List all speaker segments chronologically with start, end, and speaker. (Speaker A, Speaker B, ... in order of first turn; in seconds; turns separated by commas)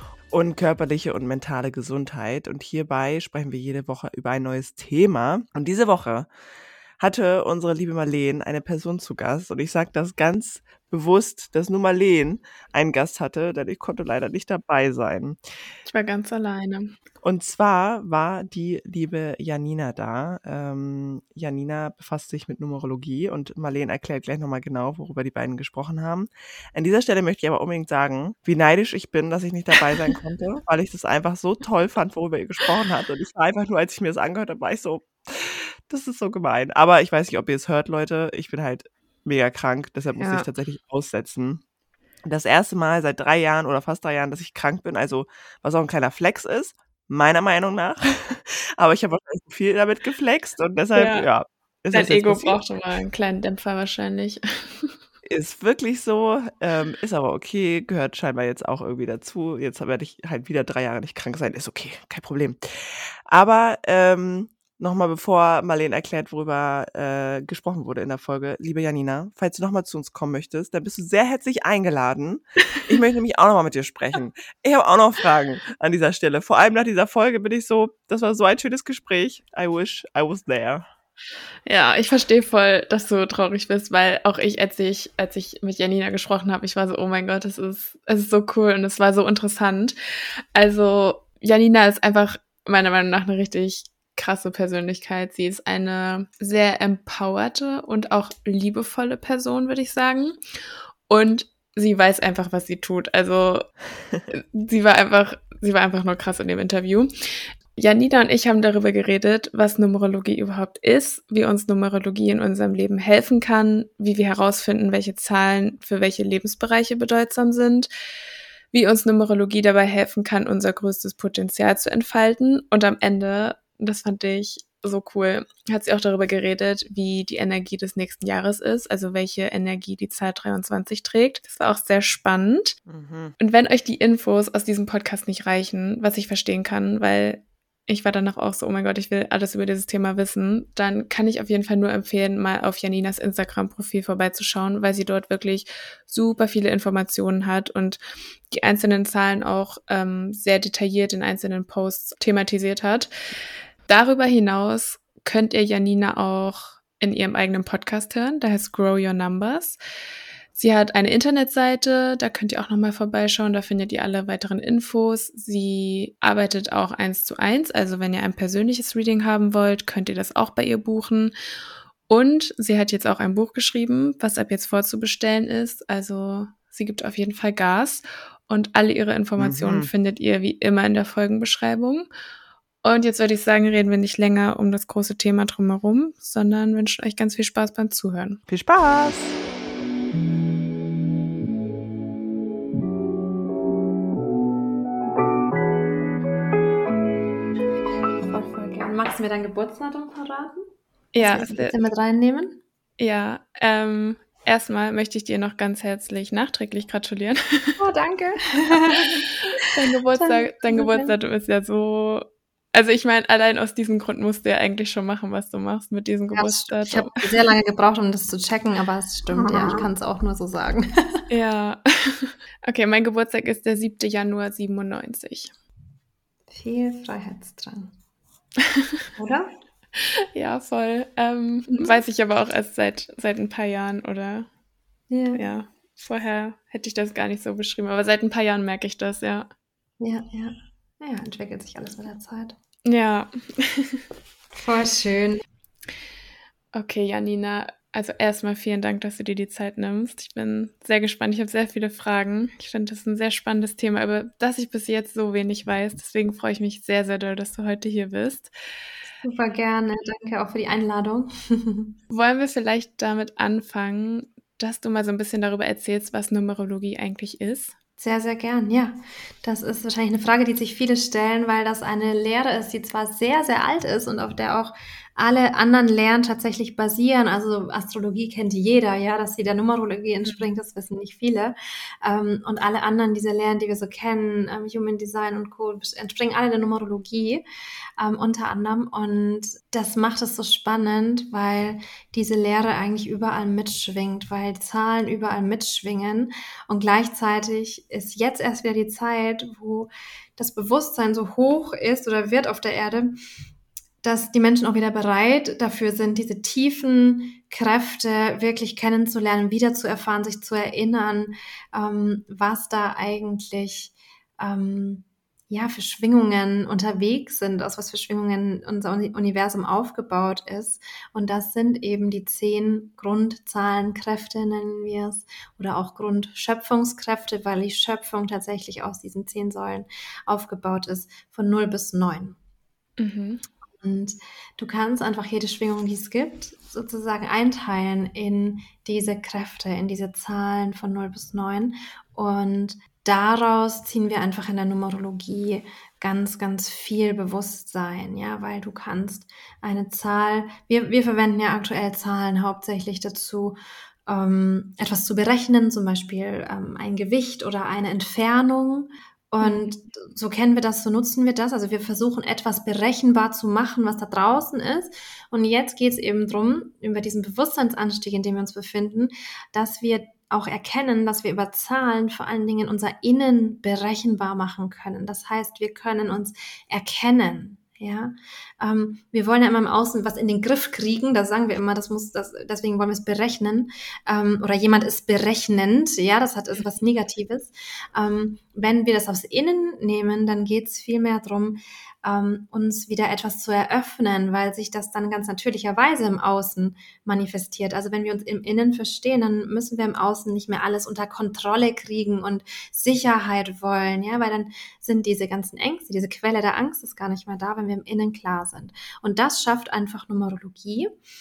Speaker A: 0.3-6.3, Speaker A: 7.0-15.4, Speaker B: 15.8-16.9, Speaker A: 17.2-41.6, Speaker B: 40.2-40.5, Speaker A: 42.2-52.6, Speaker B: 50.9-51.3, Speaker B: 51.9-54.9, Speaker A: 55.2-80.8, Speaker B: 81.7-90.0, Speaker B: 90.5-100.3, Speaker B: 101.1-103.7, Speaker B: 104.3-107.1, Speaker B: 107.7-117.9, Speaker B: 118.7-132.8, Speaker A: 132.9-133.3, Speaker B: 133.4-148.0, Speaker B: 148.5-153.1, Speaker B: 153.9-159.8, Speaker B: 160.5-171.3, Speaker B: 172.1-182.1, Speaker A: 179.4-179.9, Speaker B: 182.8-188.4, Speaker A: 188.5-189.3, Speaker C: 198.3-200.6, Speaker B: 201.1-201.8, Speaker C: 201.2-202.6, Speaker B: 203.0-207.8, Speaker C: 207.8-211.1, Speaker B: 208.7-217.2, Speaker C: 216.3-221.2, Speaker B: 219.3-219.8, Speaker B: 221.3-225.5, Speaker C: 226.5-227.9, Speaker C: 229.2-229.5, Speaker B: 230.3-234.5, Speaker C: 231.7-232.0, Speaker C: 235.1-235.4, Speaker B: 235.3-239.5, Speaker C: 240.0-242.6, Speaker B: 242.8-244.0, Speaker C: 244.5-245.4, Speaker B: 246.7-258.5, Speaker C: 259.2-261.9, Speaker B: 262.1-267.7, Speaker C: 268.0-287.4, Speaker C: 288.0-303.2, Speaker C: 304.0-332.4, Speaker B: 333.0-333.4, Speaker C: 333.8-410.9, Speaker B: 359.4-359.7